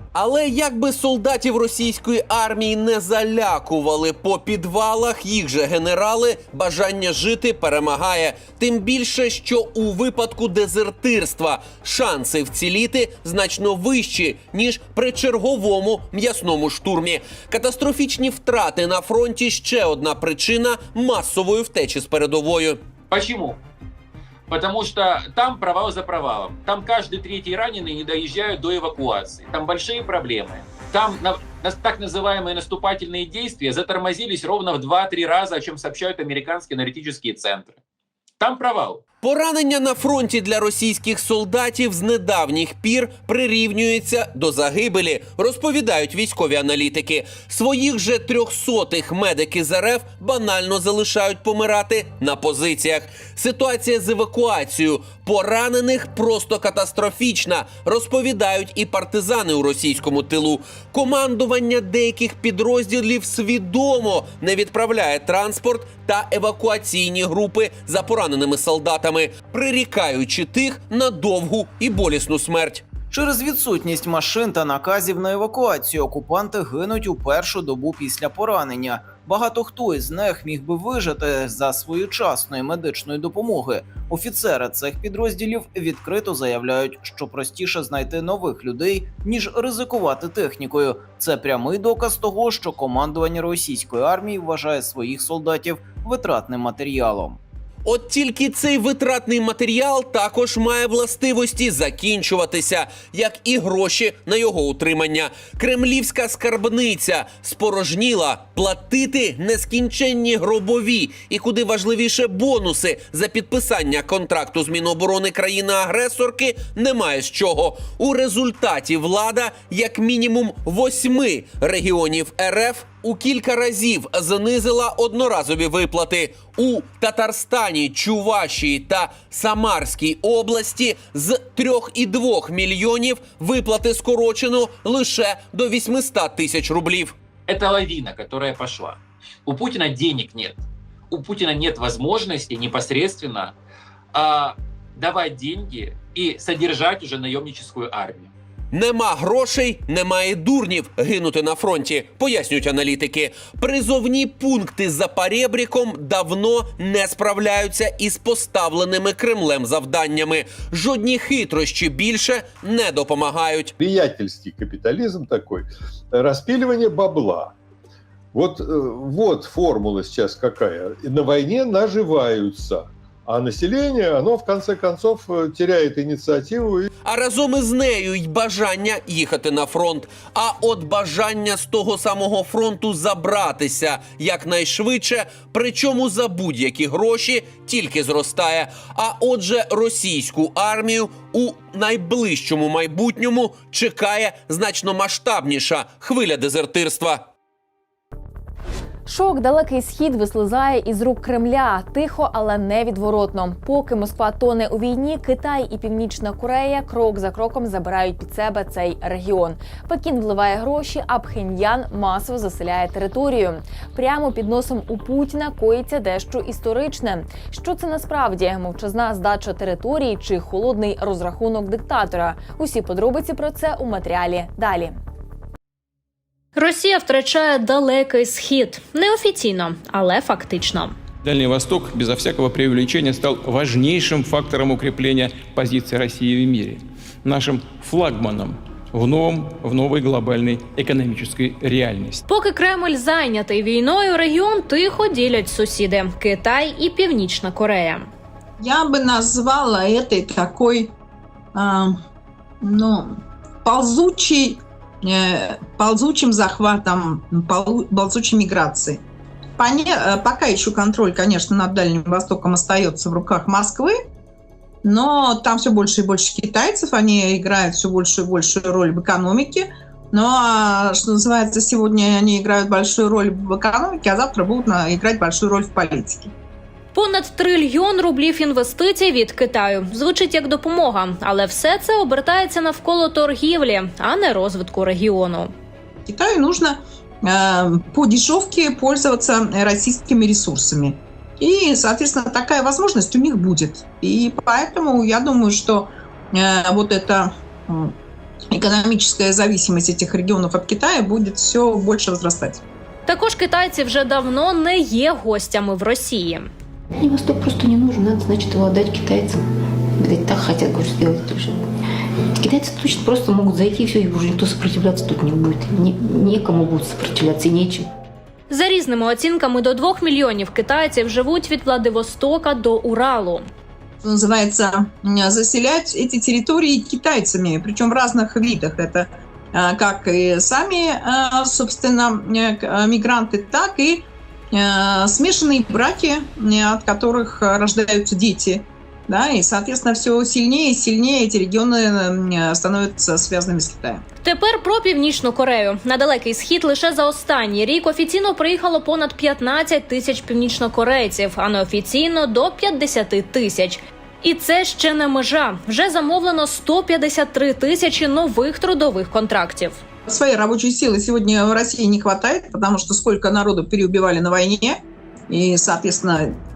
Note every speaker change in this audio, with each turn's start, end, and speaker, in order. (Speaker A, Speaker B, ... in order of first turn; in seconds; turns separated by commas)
Speaker A: 0.1-22.8, Speaker B: 23.1-23.6, Speaker B: 24.5-37.8, Speaker B: 38.4-39.0, Speaker A: 39.2-72.9, Speaker C: 73.0-97.4, Speaker A: 97.8-137.1, Speaker B: 137.5-143.5, Speaker B: 144.1-148.3, Speaker A: 148.7-163.7, Speaker D: 163.8-167.5, Speaker D: 168.3-176.9, Speaker A: 177.0-197.2, Speaker E: 199.1-225.0, Speaker F: 226.6-230.9, Speaker G: 231.2-242.2, Speaker F: 242.3-248.1, Speaker H: 248.6-250.9, Speaker H: 251.5-252.0, Speaker H: 252.6-259.0, Speaker H: 259.6-264.0, Speaker H: 264.8-276.3, Speaker F: 276.9-285.5, Speaker H: 286.1-297.9, Speaker H: 298.5-302.6, Speaker F: 303.1-306.5, Speaker I: 307.0-309.4, Speaker I: 310.0-311.7, Speaker I: 312.4-317.9, Speaker F: 318.5-323.4, Speaker H: 324.0-344.0, Speaker F: 344.2-359.8, Speaker H: 360.1-366.4